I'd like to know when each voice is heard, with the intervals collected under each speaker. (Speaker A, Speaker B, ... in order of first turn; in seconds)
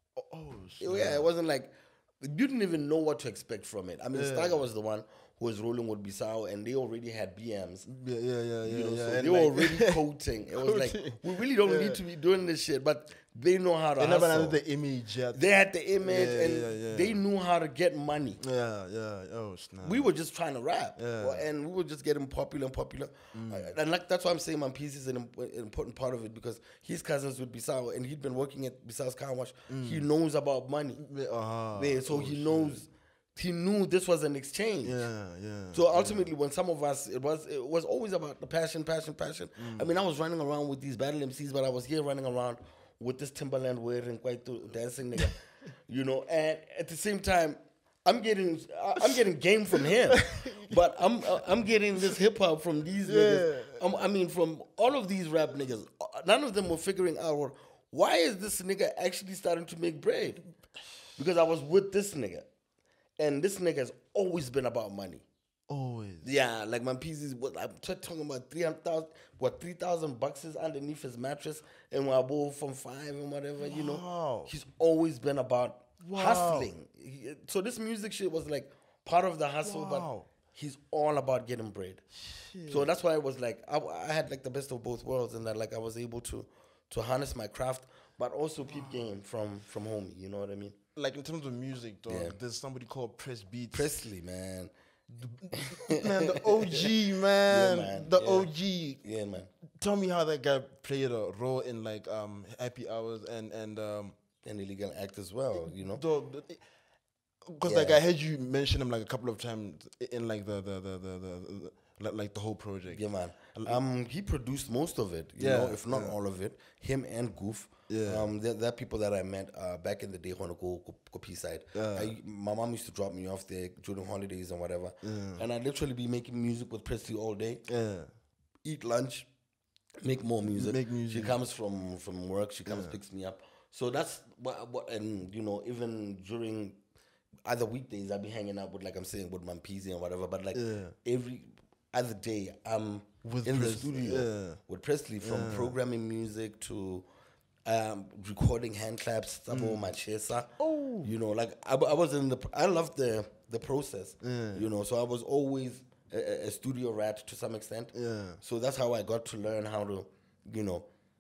Speaker A: 0.2-1.3, 4.1-4.6, 7.9-10.0, 10.6-12.0, 14.0-17.2, 18.4-20.1, 21.0-21.4, 23.3-23.7, 29.7-30.1, 31.0-32.8, 34.8-36.3, 39.6-39.9, 49.8-51.4, 53.0-53.8, 65.7-66.3, 73.6-74.5, 76.0-76.7, 79.6-80.3, 82.1-82.9, 88.7-89.1, 91.0-93.9, 95.2-99.0, 99.8-104.2, 105.6-106.6, 107.5-113.0, 115.4-116.2, 117.9-118.3, 121.7-122.1, 125.0-125.4, 127.7-128.1, 130.5-131.4, 132.7-133.0, 140.5-140.9, 143.2-144.6, 145.2-145.8, 149.5-149.9, 150.6-151.1, 154.2-154.7, 157.9-158.4
Speaker B: 0.8-7.9, 8.7-14.6, 15.3-18.4, 19.8-31.0, 31.8-35.0, 35.7-60.4, 61.2-62.5, 63.2-65.3, 66.2-82.0, 82.7-90.8, 92.1-92.4, 93.7-94.7, 95.5-98.5, 99.0-99.5, 104.5-106.0, 107.7-108.0, 112.9-127.7, 128.6-129.3, 130.0-136.8, 137.4-147.1, 147.7-160.9